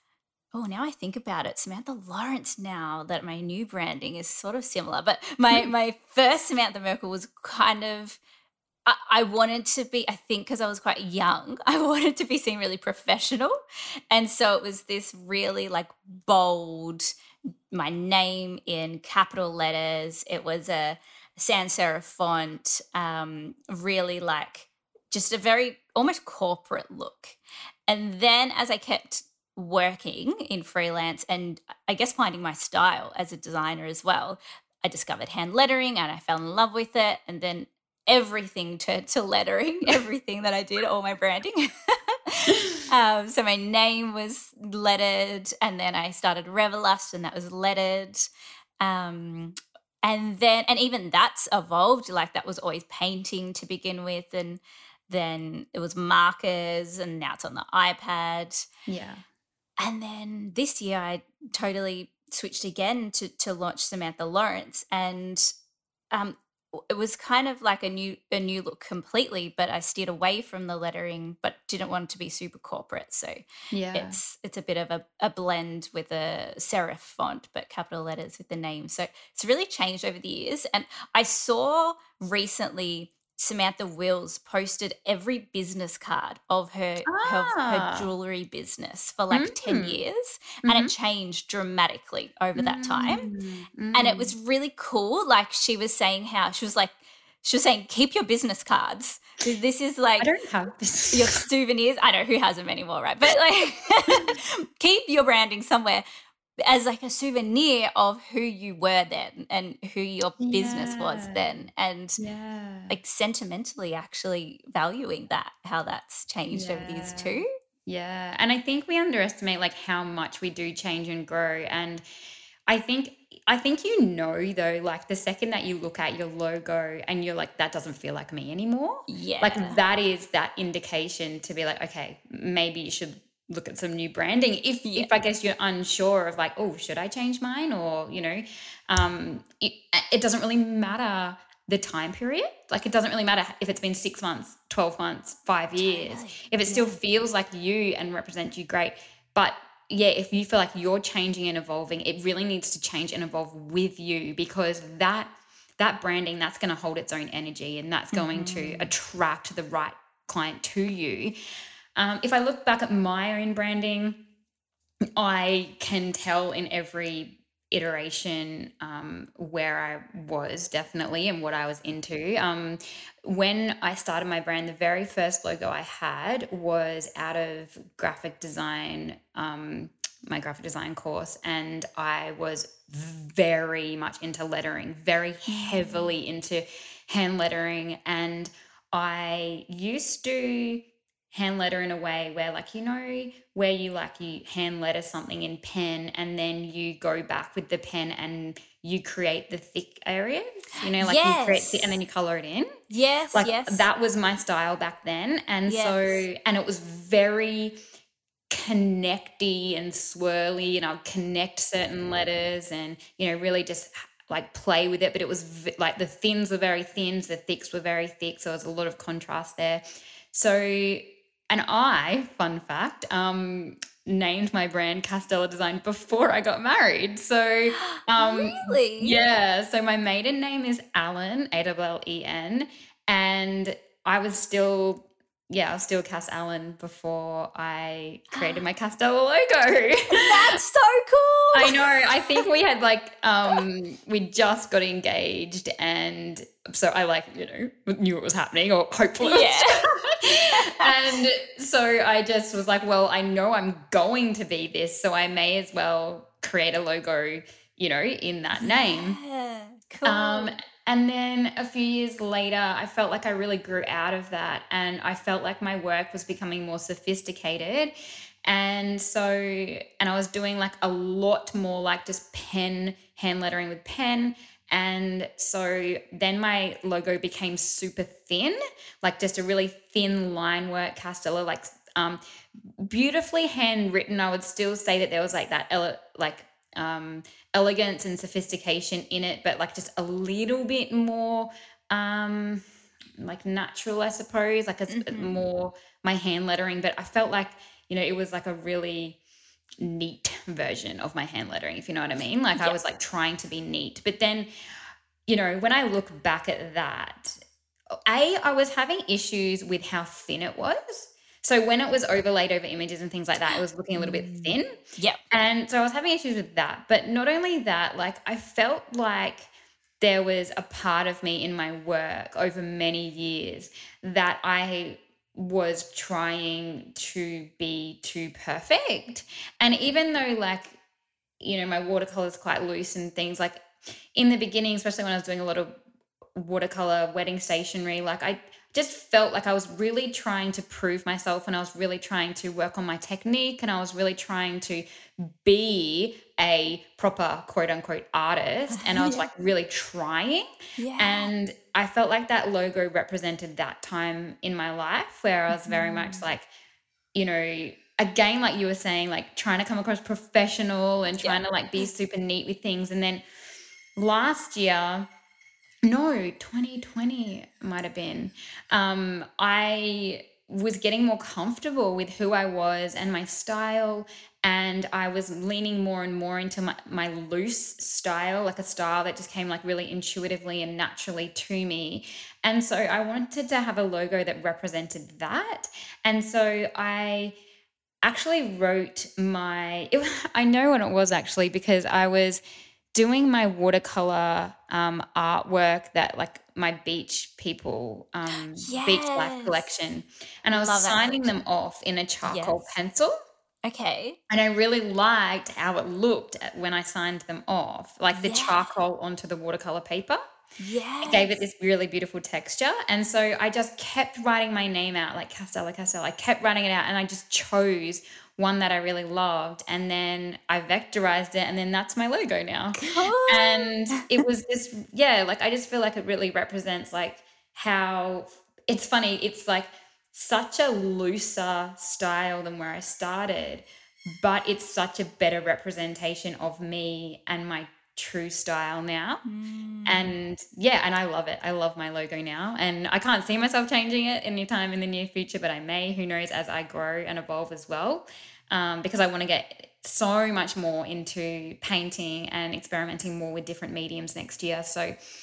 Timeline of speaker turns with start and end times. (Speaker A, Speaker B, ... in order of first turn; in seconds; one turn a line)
Speaker A: 0.5-8.2
Speaker A: 8.8-13.6
Speaker A: 14.1-17.1
Speaker A: 17.7-48.3
Speaker A: 48.8-58.7
Speaker B: 58.9-59.2
Speaker A: 59.8-65.5
Speaker A: 66.1-73.4
Speaker B: 73.7-74.2
Speaker A: 73.9-93.3
Speaker B: 87.1-88.1
Speaker B: 89.3-90.0
Speaker B: 90.6-90.9
Speaker B: 92.5-94.3
Speaker A: 93.9-100.3
Speaker B: 100.2-101.4
Speaker A: 101.1-106.0
Speaker A: 106.6-112.2
Speaker B: 110.4-111.7
Speaker B: 112.2-113.0
Speaker A: 112.9-117.5
Speaker B: 116.5-122.0
Speaker B: 122.7-161.3
Speaker A: 129.1-129.8
Speaker A: 134.8-135.1
Speaker A: 145.8-147.0
Speaker A: 158.1-158.9
Speaker B: 161.9-164.2
Speaker B: 165.2-202.8
Speaker A: 185.5-186.1
Speaker A: 201.0-201.9
Speaker A: 202.9-203.8
Speaker B: 203.3-207.8
Speaker A: 205.7-206.2
Speaker B: 208.5-240.6
Speaker A: 227.7-229.2
Speaker A: 238.3-238.6
Speaker A: 240.1-241.7
Speaker B: 241.5-259.2
Speaker A: 249.2-249.8
Speaker A: 250.4-250.9
Speaker A: 258.6-260.5
Speaker B: 260.0-267.9
Speaker B: 268.4-282.2
Speaker B: 282.8-292.6
Speaker B: 293.2-299.2
Speaker A: 294.9-295.4
Speaker B: 299.8-304.5
Speaker B: 305.3-307.4
Speaker B: 308.1-314.8
Speaker A: 313.9-315.2
Speaker B: 315.3-319.5
Speaker B: 320.0-330.8
Speaker B: 331.4-335.7
Speaker B: 336.4-350.5
Speaker A: 348.7-349.3
Speaker A: 350.8-351.3
Speaker B: 351.0-356.4
Speaker A: 355.5-356.2
Speaker B: 357.1-363.2
Speaker A: 361.2-361.9
Speaker B: 363.9-365.1
Speaker B: 365.9-387.3
Speaker B: 388.0-392.4
Speaker B: 392.9-403.1
Speaker A: 398.3-399.7
Speaker A: 400.5-401.4
Speaker A: 402.2-402.8
Speaker A: 403.6-404.2
Speaker B: 404.3-410.2
Speaker A: 408.1-408.7
Speaker A: 410.6-411.4
Speaker B: 411.0-433.6
Speaker A: 422.8-424.0
Speaker B: 434.2-439.2
Speaker A: 439.2-440.1
Speaker B: 439.9-454.9